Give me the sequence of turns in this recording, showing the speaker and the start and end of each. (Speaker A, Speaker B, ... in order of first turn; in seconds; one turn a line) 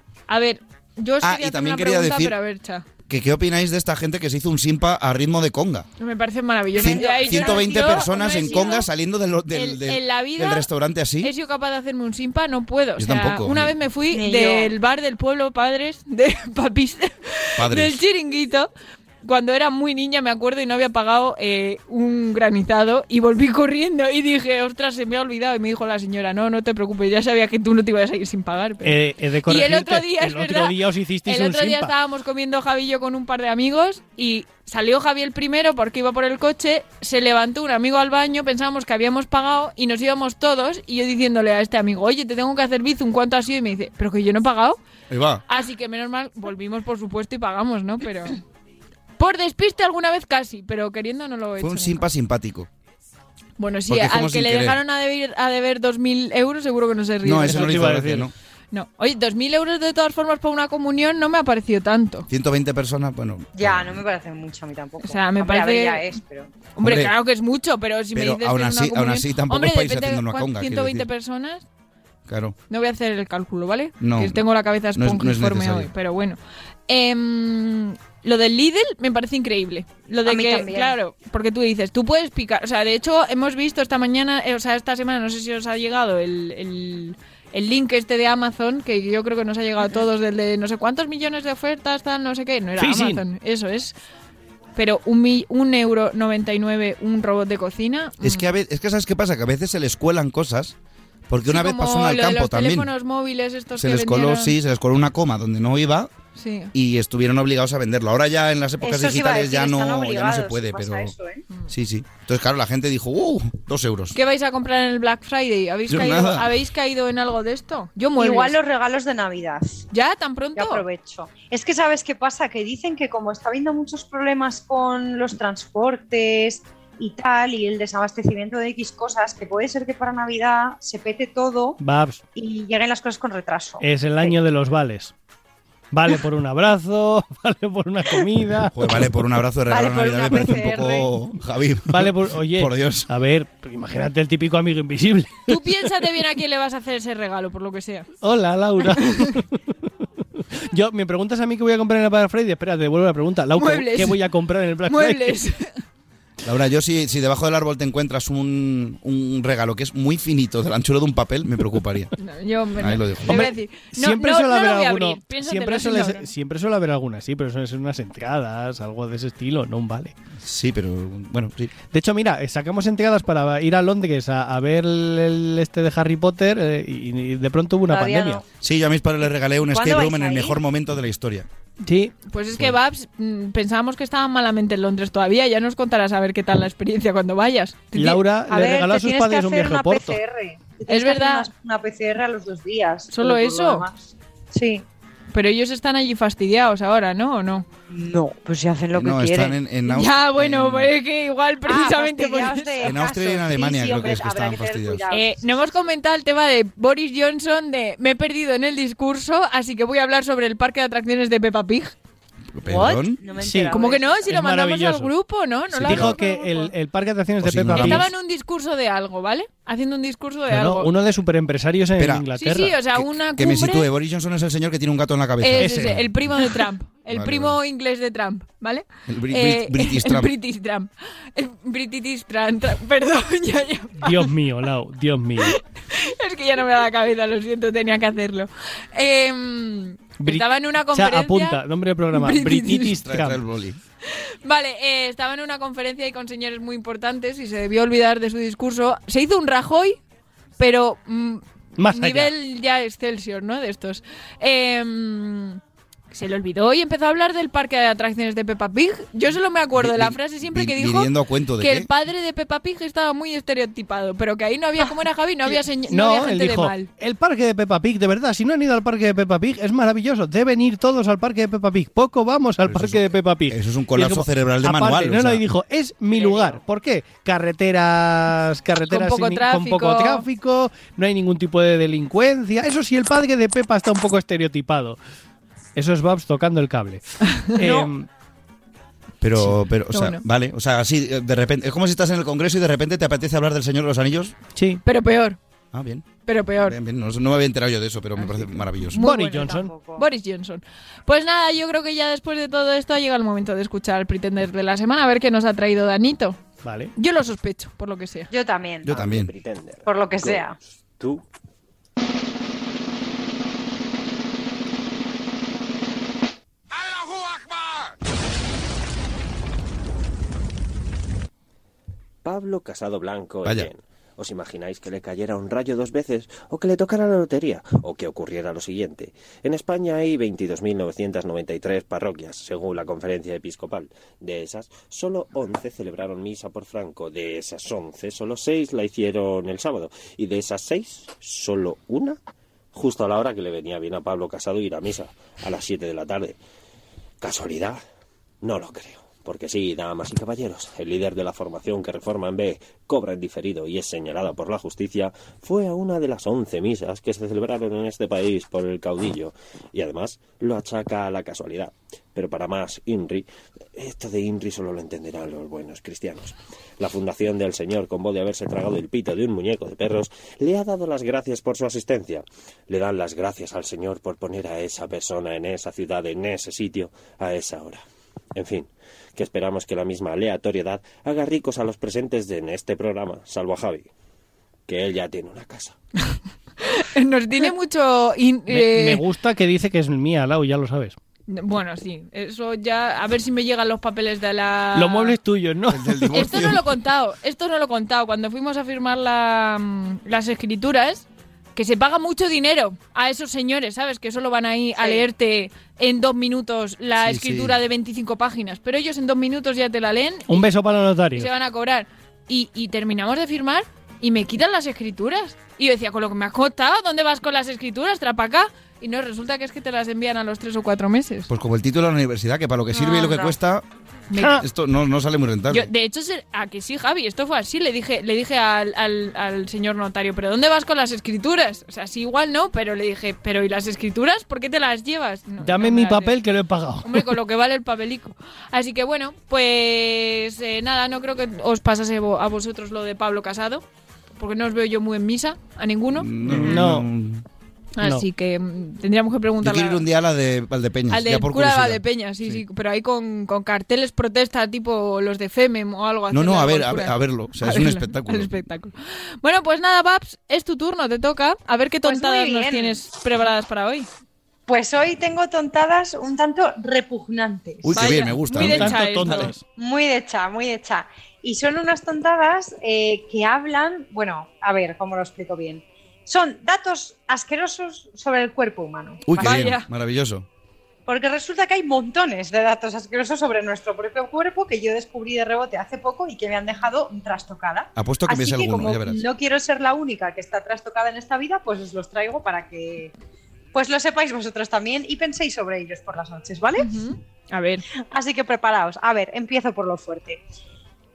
Speaker A: 0.3-2.8
Speaker B: 1.2-2.3
Speaker B: 3.1-5.8
Speaker A: 6.0-8.9
Speaker C: 6.7-8.7
Speaker B: 6.8-11.3
Speaker A: 9.5-10.7
Speaker A: 11.2-18.7
Speaker B: 13.0-13.7
Speaker C: 14.1-14.7
Speaker B: 17.6-18.0
Speaker A: 19.2-44.8
Speaker D: 28.8-31.9
Speaker B: 45.1-45.4
Speaker A: 45.5-48.4
Speaker A: 49.2-52.1
Speaker B: 51.6-52.7
Speaker A: 53.6-57.8
Speaker B: 53.9-54.8
Speaker B: 57.2-58.3
Speaker D: 57.4-58.3
Speaker A: 58.7-62.3
Speaker B: 62.3-64.0
Speaker C: 63.5-66.5
Speaker A: 65.0-66.0
Speaker A: 66.7-71.6
Speaker B: 66.8-67.1
Speaker B: 68.1-71.0
Speaker B: 72.3-72.5
Speaker A: 72.7-93.9
Speaker B: 74.0-74.4
Speaker B: 75.0-75.9
Speaker C: 80.2-81.0
Speaker D: 92.8-93.2
Speaker A: 94.8-98.5
Speaker B: 98.2-100.7
Speaker B: 101.3-102.9
Speaker A: 101.5-104.5
Speaker B: 103.8-106.1
Speaker A: 106.3-106.7
Speaker B: 106.7-111.1
Speaker C: 108.8-111.4
Speaker B: 111.7-114.2
Speaker A: 114.1-118.5
Speaker B: 115.9-116.5
Speaker C: 118.2-119.8
Speaker A: 119.9-120.8
Speaker C: 120.5-131.8
Speaker D: 131.8-132.2
Speaker C: 132.3-134.3
Speaker D: 133.8-135.1
Speaker D: 135.9-138.8
Speaker B: 138.7-143.1
Speaker C: 139.7-141.1
Speaker D: 141.9-145.6
Speaker A: 145.5-148.1
Speaker D: 148.2-149.5
Speaker A: 148.9-149.4
Speaker D: 150.7-155.4
Speaker A: 153.5-154.2
Speaker A: 154.9-155.7
Speaker B: 156.4-162.1
Speaker A: 162.2-166.3
Speaker B: 162.8-163.5
Speaker D: 163.3-170.1
Speaker B: 170.4-171.7
Speaker D: 171.9-178.4
Speaker C: 177.9-178.4
Speaker B: 178.6-181.5
Speaker C: 179.7-180.6
Speaker D: 181.8-182.1
Speaker A: 182.3-188.2
Speaker D: 187.9-190.2
Speaker C: 188.5-194.8
Speaker A: 190.9-191.5
Speaker A: 193.1-193.8
Speaker A: 195.3-197.7
Speaker C: 197.9-199.6
Speaker B: 198.9-200.9
Speaker A: 199.9-202.9
Speaker C: 201.7-205.4
Speaker B: 202.8-205.0
Speaker A: 205.1-211.9
Speaker B: 212.6-213.2
Speaker C: 212.7-214.3
Speaker D: 213.4-215.1
Speaker A: 213.7-216.7
Speaker D: 215.7-218.1
Speaker B: 215.7-216.1
Speaker B: 217.4-218.1
Speaker A: 217.7-220.9
Speaker D: 220.5-222.8
Speaker B: 222.0-222.2
Speaker A: 222.3-223.9
Speaker B: 222.9-226.5
Speaker A: 225.4-234.3
Speaker B: 227.1-227.6
Speaker B: 229.1-230.3
Speaker D: 234.0-235.6
Speaker A: 235.4-243.0
Speaker D: 240.2-243.4
Speaker B: 243.0-243.8
Speaker A: 244.1-250.0
Speaker A: 250.6-255.6
Speaker D: 251.8-252.3
Speaker A: 256.1-266.9
Speaker B: 259.8-261.9
Speaker D: 265.5-285.0
Speaker B: 272.6-275.4
Speaker A: 278.9-280.2
Speaker D: 285.8-288.1
Speaker C: 287.6-287.9
Speaker B: 289.2-294.4
Speaker A: 289.9-290.2
Speaker D: 294.6-294.8
Speaker A: 294.8-295.4
Speaker B: 295.7-296.1
Speaker A: 296.2-296.8
Speaker B: 296.6-299.0
Speaker A: 298.2-306.4
Speaker D: 298.9-299.7
Speaker C: 299.1-300.0
Speaker D: 306.6-306.9
Speaker A: 306.9-308.3
Speaker C: 308.3-308.9
Speaker B: 308.8-309.3
Speaker E: 308.9-311.2
Speaker C: 309.9-310.6
Speaker E: 322.2-342.2
Speaker E: 342.7-346.4
Speaker E: 347.2-347.8
Speaker E: 348.4-377.8
Speaker E: 378.3-383.9
Speaker E: 384.7-385.7
Speaker A: 386.0-389.0
Speaker D: 388.5-390.9
Speaker A: 391.3-395.2
Speaker D: 394.7-396.5
Speaker B: 395.7-396.6
Speaker A: 396.1-401.0
Speaker A: 401.6-410.5
Speaker C: 404.8-405.0
Speaker B: 407.0-407.6
Speaker D: 410.3-411.3
Speaker A: 411.1-421.3
Speaker B: 421.3-423.6
Speaker C: 422.7-423.4
Speaker A: 424.1-424.4
Speaker D: 424.1-424.4
Speaker B: 424.4-425.7
Speaker A: 425.5-436.2
Speaker D: 435.4-437.1
Speaker A: 436.8-443.6
Speaker A: 444.2-446.6
Speaker B: 445.9-447.2
Speaker D: 446.2-446.9
Speaker A: 447.8-449.8
Speaker B: 449.4-452.4
Speaker A: 450.9-463.9
Speaker B: 456.1-458.3
Speaker C: 461.8-462.8
Speaker C: 464.5-467.9
Speaker B: 467.6-469.3
Speaker A: 467.7-469.3
Speaker D: 468.3-469.4
Speaker C: 469.6-479.4
Speaker B: 479.1-480.3
Speaker A: 479.2-479.6
Speaker C: 480.9-492.9
Speaker B: 487.8-489.0
Speaker C: 493.5-496.8
Speaker A: 496.6-497.6
Speaker C: 497.9-500.2